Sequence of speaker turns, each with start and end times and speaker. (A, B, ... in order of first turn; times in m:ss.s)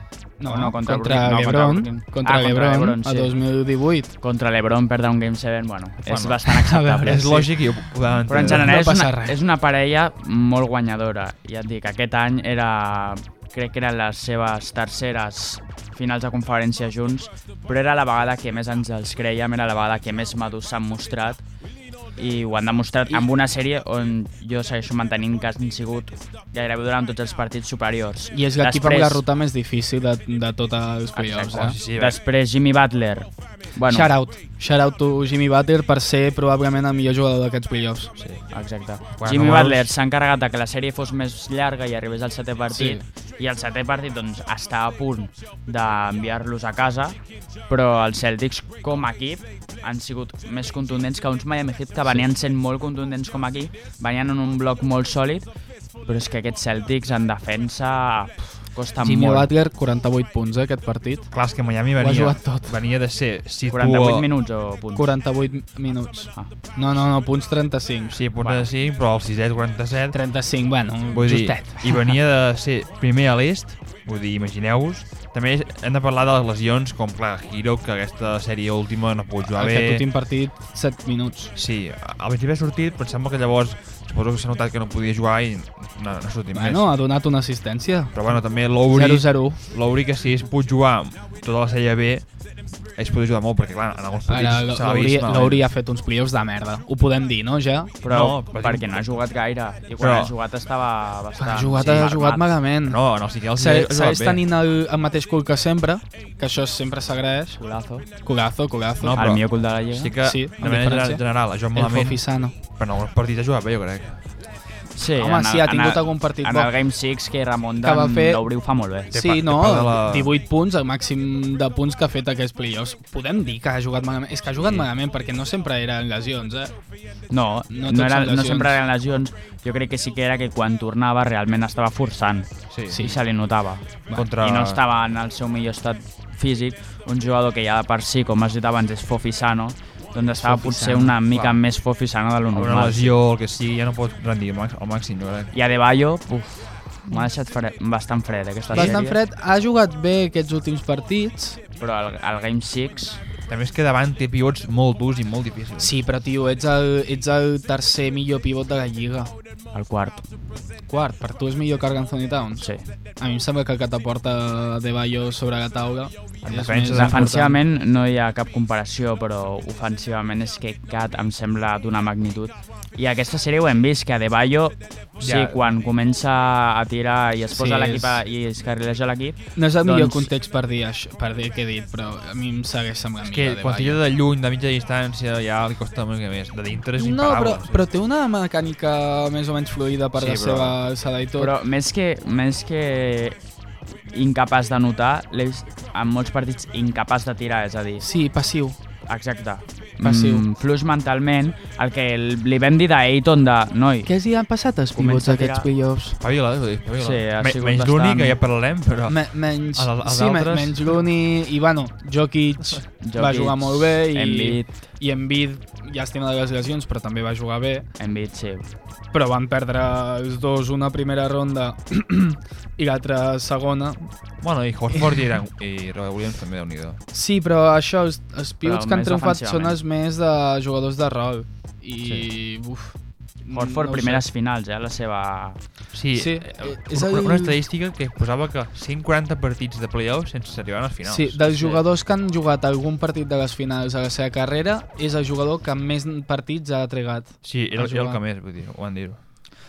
0:00.4-0:04.1 A
0:00.4-0:03.4 B
0:04.2-0:07.4 B
0:06.1-0:06.5 C
0:06.5-0:09.4 A
0:07.0-0:08.7 C
0:08.3-0:21.4 B
0:22.2-0:29.2 B
0:28.3-0:31.8 A
0:31.1-0:34.1 B
0:31.5-0:32.2 C
0:33.9-0:38.1 A
0:38.2-0:38.4 C
0:38.5-0:47.2 B
0:39.2-0:39.9 C
0:42.7-0:43.0 A
0:47.7-0:55.5 B
0:56.0-0:59.5 B
0:59.0-1:01.3 A
1:01.3-1:04.3 C
1:02.0-1:02.8 A
1:03.7-1:05.1 B
1:05.0-1:08.2 A
1:08.1-1:10.2 C
1:08.4-1:08.7 B
1:10.1-1:12.1 A
1:11.1-1:20.0 C
1:19.5-1:21.5 A
1:21.5-1:26.9 C
1:26.5-1:29.6 A
1:28.1-1:32.3 C
1:32.9-1:35.6 C
1:34.3-1:38.0 A
1:38.0-1:42.4 B
1:38.1-1:39.0 C
1:40.0-1:40.3 C
1:41.4-1:43.0 A
1:42.8-1:44.4 C
1:43.5-1:47.6 A
1:47.6-1:48.0 B
1:48.2-1:49.2 A
1:49.0-1:54.2 C
1:49.1-1:50.1 B
1:50.2-1:52.5 A
1:54.9-1:59.1 B
1:55.2-1:56.7 A
1:57.8-1:58.4 A
1:59.1-2:00.3 C
1:59.1-2:06.7 A
2:04.6-2:04.9 C
2:07.3-2:23.1 B
2:07.7-2:08.8 A
2:12.7-2:13.1 C
2:12.9-2:13.2 A
2:14.1-2:14.8 C
2:20.3-2:21.2 A
2:22.5-2:25.5 C
2:25.5-2:29.2 B
2:28.7-2:29.0 C
2:28.7-2:31.6 A
2:31.8-2:33.2 B
2:33.5-2:35.9 C
2:35.8-2:39.3 A
2:39.7-2:40.2 B
2:40.9-2:42.7 A
2:42.6-2:42.8 B
2:43.2-2:47.6 A
2:46.4-2:47.3 C
2:46.8-3:00.3 B
2:55.2-2:55.6 C
2:57.5-2:58.2 A
2:59.6-3:04.0 A
3:03.2-3:07.8 C
3:07.0-3:11.5 A
3:10.1-3:10.8 C
3:11.4-3:13.4 B
3:14.1-3:18.0 B
3:18.0-3:18.8 A
3:19.0-3:24.1 B
3:20.0-3:20.4 A
3:24.0-3:26.2 A
3:24.9-3:25.7 B
3:26.2-3:31.0 C
3:27.0-3:28.4 B
3:29.1-3:37.9 A
3:33.0-3:34.7 B
3:38.0-3:38.7 B
3:39.1-3:44.1 A
3:44.4-3:47.0 C
3:47.1-3:52.9 A
3:48.6-3:49.8 B
3:53.4-3:54.2 A
3:53.5-3:55.6 B
3:55.9-4:01.4 C
3:56.1-3:57.6 A
4:01.0-4:08.2 A
4:01.4-4:01.8 B
4:07.4-4:09.2 C